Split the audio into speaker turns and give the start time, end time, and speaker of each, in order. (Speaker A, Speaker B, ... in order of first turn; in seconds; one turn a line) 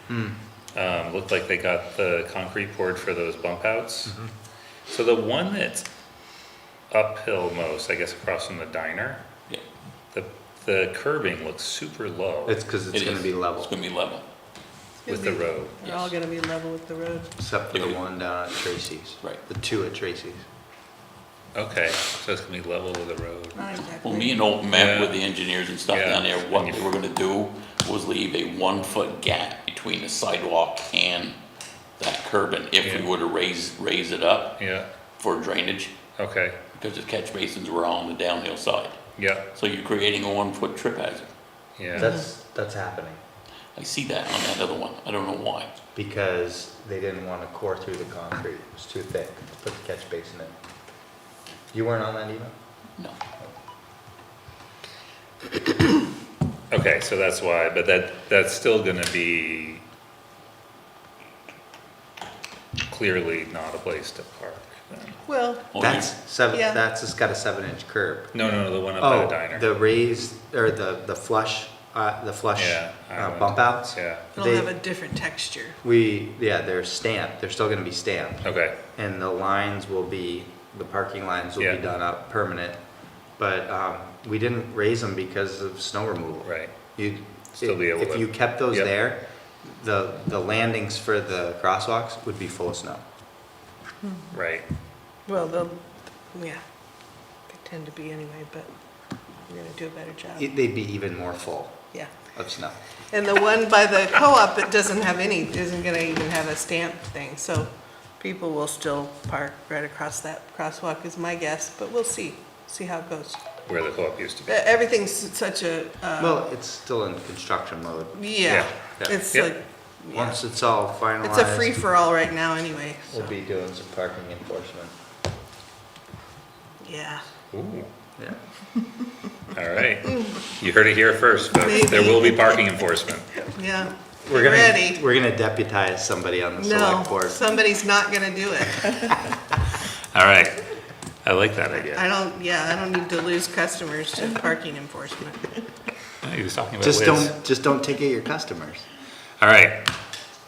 Speaker A: 0.1-0.3
Speaker B: 0.7-4.2
Speaker B: 4.9-5.9
Speaker B: 6.9-9.2
Speaker B: 10.1-12.6
Speaker A: 12.4-13.7
Speaker C: 12.9-14.2
Speaker D: 15.0-17.3
Speaker B: 15.1-16.1
Speaker A: 17.4-20.4
Speaker C: 17.7-18.0
Speaker B: 21.5-23.7
Speaker D: 23.5-24.4
Speaker C: 24.0-31.4
Speaker B: 24.7-25.2
Speaker B: 25.9-26.8
Speaker C: 32.0-34.6
Speaker B: 32.8-33.1
Speaker B: 34.6-34.9
Speaker C: 35.2-35.9
Speaker B: 36.2-36.6
Speaker C: 36.7-39.0
Speaker B: 39.2-39.5
Speaker C: 39.5-41.3
Speaker B: 41.8-42.1
Speaker A: 41.9-43.2
Speaker C: 43.8-45.7
Speaker A: 45.9-50.5
Speaker A: 51.7-52.5
Speaker B: 56.7-59.8
Speaker B: 62.9-65.2
Speaker D: 65.3-65.8
Speaker C: 65.7-66.1
Speaker A: 65.8-68.3
Speaker D: 66.5-66.8
Speaker B: 68.3-69.6
Speaker A: 69.0-74.7
Speaker B: 72.5-74.3
Speaker D: 74.3-75.8
Speaker A: 75.8-82.8
Speaker B: 78.4-78.8
Speaker A: 83.4-93.0
Speaker B: 86.4-86.7
Speaker B: 87.6-88.9
Speaker B: 94.3-94.7
Speaker D: 95.3-96.6
Speaker D: 97.5-98.7
Speaker D: 99.4-100.4
Speaker A: 100.3-102.8
Speaker D: 103.1-113.4
Speaker B: 113.7-114.6
Speaker D: 114.5-116.4
Speaker A: 116.2-119.2
Speaker D: 118.2-120.3
Speaker B: 118.5-119.5
Speaker A: 120.1-121.8
Speaker D: 121.2-123.2
Speaker A: 123.1-124.9
Speaker D: 126.8-127.2
Speaker B: 127.5-127.9
Speaker B: 129.5-133.4
Speaker D: 131.5-132.6
Speaker D: 133.4-135.0
Speaker A: 134.2-137.4
Speaker D: 136.6-139.3
Speaker B: 140.1-140.6
Speaker B: 141.2-142.0
Speaker D: 141.9-145.6
Speaker B: 146.2-147.3
Speaker A: 146.8-148.8
Speaker B: 149.4-149.8